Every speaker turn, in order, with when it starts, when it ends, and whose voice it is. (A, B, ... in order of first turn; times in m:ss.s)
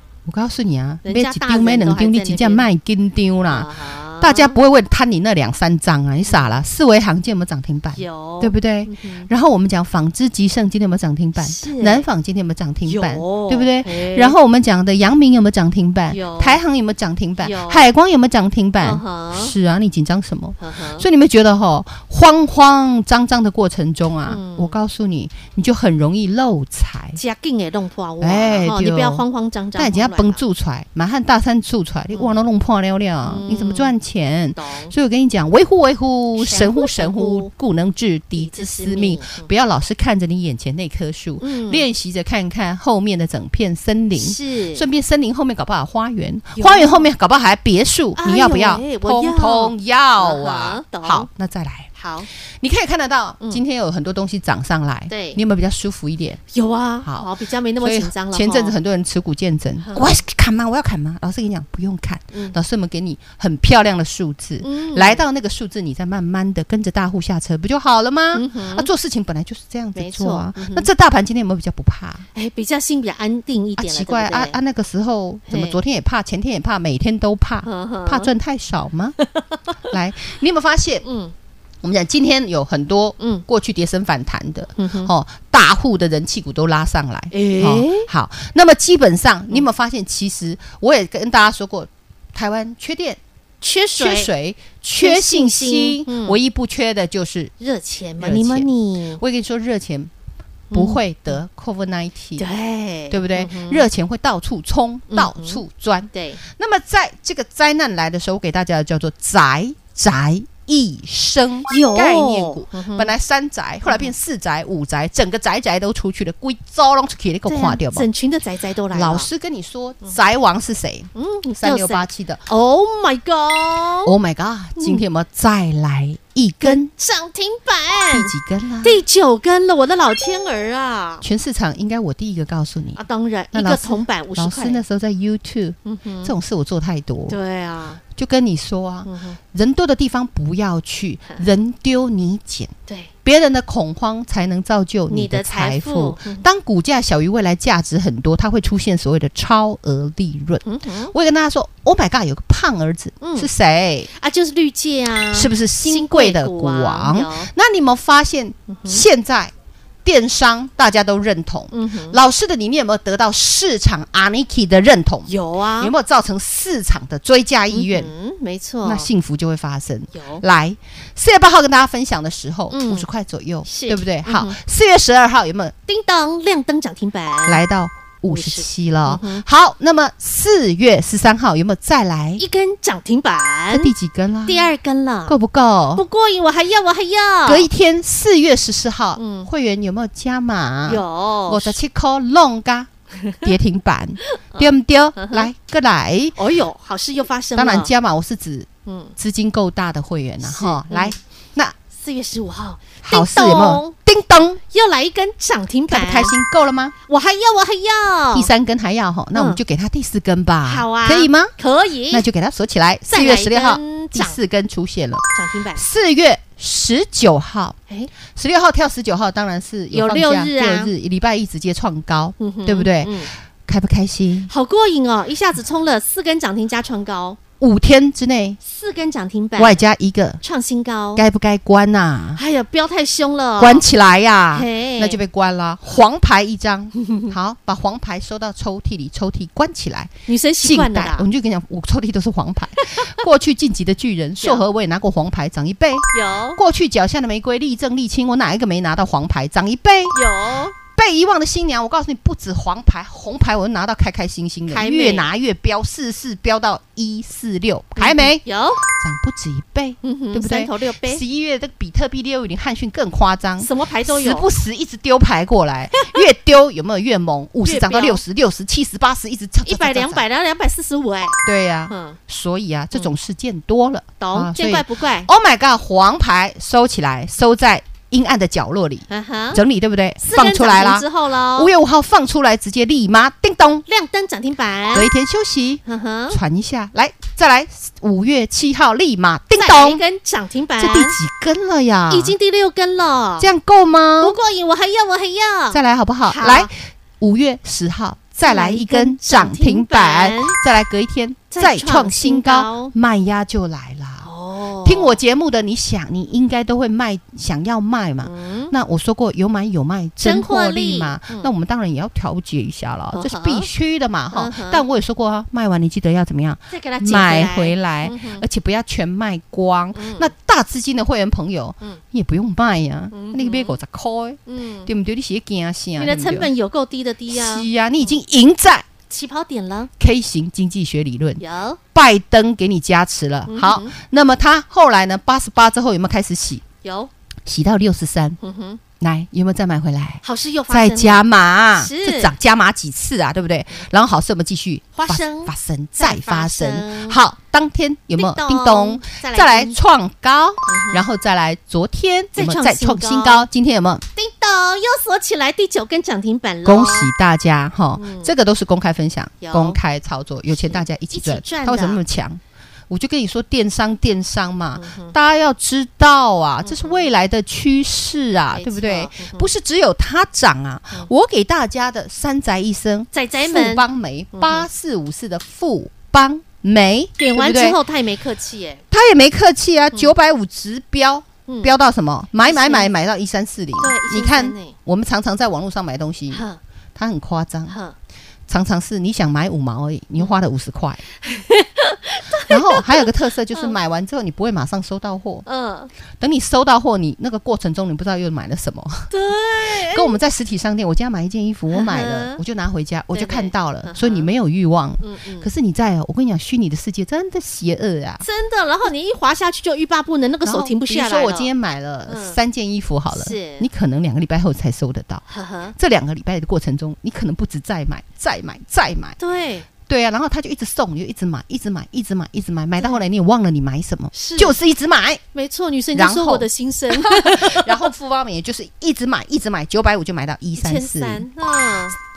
0:00.2-0:27.2 A
0:01.0-0:02.7 B
0:03.5-0:04.6 B
0:06.2-0:06.6 B
0:08.0-0:09.3 B
0:11.4-0:12.0 B
0:12.8-0:14.3 B
0:16.1-0:16.6 B
0:17.4-0:17.9 B
0:18.8-0:19.5 B
0:20.6-0:21.1 B
0:24.2-0:24.8 B
0:27.1-0:30.4 B
0:28.2-0:29.2 A
0:29.7-0:51.9 A
0:33.2-0:33.9 B
0:34.5-0:34.9 B
0:36.4-0:37.5 B
0:38.3-0:39.5 B
0:41.4-0:41.9 B
0:44.2-0:44.8 B
0:46.6-0:47.1 B
0:48.2-0:51.3 B
0:51.9-0:52.3 B
0:52.6-0:56.4 A
0:55.1-0:55.4 B
0:56.5-0:58.8 B
0:57.0-0:57.3 A
0:57.8-1:12.2 A
0:59.8-1:00.2 B
1:02.3-1:02.6 B
1:04.6-1:05.2 B
1:08.3-1:08.9 B
1:10.0-1:10.9 B
1:12.3-1:14.6 B
1:13.8-1:19.2 A
1:15.5-1:15.8 B
1:17.6-1:18.3 B
1:19.3-1:19.7 B
1:19.9-1:21.0 A
1:21.0-1:21.3 B
1:21.8-1:33.2 A
1:23.2-1:23.4 B
1:24.8-1:25.1 B
1:27.3-1:28.1 B
1:33.6-1:34.3 B
1:34.0-1:37.5 A
1:35.0-1:36.4 B
1:37.6-1:39.2 B
1:38.2-1:40.1 A
1:40.7-1:41.0 B
1:40.7-1:42.4 A
1:42.4-1:43.9 B
1:43.1-1:58.1 A
1:45.1-1:45.6 B
1:46.1-1:46.4 B
1:51.7-1:53.1 B
1:53.8-1:54.1 B
1:57.4-1:59.3 B
1:58.9-2:02.4 A
2:01.1-2:04.1 B
2:04.0-2:06.9 A
2:04.8-2:05.0 B
2:06.6-2:11.2 B
2:08.1-2:09.0 A
2:11.2-2:13.0 A
2:13.0-2:14.8 B
2:13.5-2:17.4 A
2:15.8-2:16.3 B
2:17.3-2:18.0 B
2:18.1-2:22.7 A
2:19.0-2:19.4 B
2:22.9-2:23.1 B
2:23.2-2:34.1 A
2:25.1-2:26.4 B
2:30.6-2:31.1 B
2:33.2-2:33.5 B
2:34.1-2:37.5 B
2:35.3-2:39.5 A
2:38.7-2:39.0 B
2:40.0-2:48.1 A
2:41.7-2:42.2 B
2:45.2-2:45.9 B
2:47.7-2:49.1 B
2:48.8-2:55.7 A
2:50.1-2:50.4 B
2:52.7-2:53.0 B
2:53.6-2:54.6 B
2:55.9-2:57.6 B
2:57.4-3:02.4 A
2:58.3-2:59.4 B
3:02.4-3:03.9 B
3:03.7-3:04.7 A
3:04.4-3:05.4 B
3:05.3-3:06.0 A
3:05.9-3:07.7 B
3:07.4-3:12.9 A
3:09.2-3:09.5 B
3:10.8-3:11.8 B
3:13.2-3:13.5 B
3:13.4-3:16.4 A
3:14.2-3:15.5 B
3:16.4-3:17.9 B
3:17.6-3:21.7 A
3:18.8-3:19.1 B
3:20.4-3:21.2 B
3:21.9-3:23.9 B
3:23.0-3:24.6 A
3:24.7-3:26.3 B
3:25.9-3:26.9 A
3:27.1-3:28.5 B
3:28.3-3:31.5 A
3:29.3-3:29.6 B
3:30.6-3:32.2 B
3:32.1-3:44.5 A
3:33.1-3:34.4 B
3:35.3-3:35.8 B
3:39.9-3:40.9 B
3:42.4-3:43.3 B
3:44.5-3:47.4 B
3:47.6-3:48.6 A
3:48.6-3:49.8 B
3:49.6-3:50.4 A
3:50.4-3:51.2 B
3:51.2-3:52.4 A
3:52.4-3:53.8 B
3:53.6-4:10.2 A
3:54.5-3:55.2 B
4:00.3-4:01.2 B
4:02.8-4:03.1 B
4:04.4-4:04.6 B
4:06.1-4:06.6 B
4:10.1-4:10.7 B
4:10.8-4:30.2 A
4:14.7-4:15.3 B
4:18.0-4:18.8 B
4:20.0-4:21.2 B
4:23.6-4:24.5 B
4:25.9-4:26.2 B
4:27.6-4:28.2 B
4:29.6-4:32.2 B
4:31.4-4:43.8 A
4:34.2-4:35.3 B
4:39.1-4:39.6 B
4:40.2-4:41.7 B
4:43.9-4:45.1 B
4:44.9-4:50.0 A
4:45.8-4:46.4 B
4:49.6-4:51.2 B
4:50.8-4:52.3 A
4:52.1-4:53.5 B
4:53.4-4:54.4 A
4:54.2-4:56.7 B
4:55.7-5:04.3 A
4:58.4-5:00.6 B
5:01.5-5:02.9 B
5:04.2-5:05.2 B
5:04.8-5:26.5 A
5:08.2-5:08.7 B
5:10.2-5:11.5 B
5:13.1-5:13.7 B
5:14.3-5:14.8 B
5:16.7-5:18.4 B
5:19.9-5:20.3 B
5:23.1-5:23.8 B
5:24.5-5:24.9 B
5:26.0-5:28.2 B
5:27.3-5:28.8 A
5:29.1-5:29.9 B
5:30.0-5:31.4 A
5:31.4-5:31.8 B
5:31.9-5:36.6 A
5:33.5-5:34.0 B
5:36.8-5:37.1 B
5:37.4-5:38.4 A
5:38.4-5:38.8 B
5:39.0-5:54.0 A
5:40.2-5:41.2 B
5:41.8-5:42.3 B
5:44.9-5:47.2 B
5:48.2-5:49.8 B
5:50.7-5:51.0 B
5:52.3-5:53.5 B
5:54.2-5:57.1 B
5:56.6-6:17.8 A
5:58.0-5:58.3 B
5:59.4-5:59.8 B
6:00.5-6:02.0 B
6:04.8-6:05.1 B
6:06.6-6:07.1 B
6:08.5-6:09.5 B
6:13.1-6:14.6 B
6:17.2-6:18.8 B
6:18.9-6:26.4 A
6:21.5-6:21.7 B
6:22.4-6:22.9 B
6:23.8-6:24.7 B
6:26.3-6:26.6 B
6:26.9-6:27.8 A
6:27.7-6:27.9 B
6:28.5-6:31.0 A
6:31.2-6:33.8 B
6:32.5-6:35.4 A
6:35.4-6:35.9 B
6:36.2-6:39.1 A
6:39.1-6:40.1 B
6:39.6-6:48.2 A
6:41.7-6:42.4 B
6:43.1-6:44.3 B
6:45.0-6:45.5 B
6:48.2-6:51.5 B
6:50.4-6:55.2 A
6:52.1-6:52.4 B
6:53.1-6:53.7 B
6:55.3-6:55.8 B
6:55.8-6:59.2 A
6:59.2-6:59.7 B
6:59.8-7:05.2 A
7:04.1-7:04.6 B
7:05.3-7:07.8 B
7:05.9-7:11.2 A
7:10.6-7:12.0 B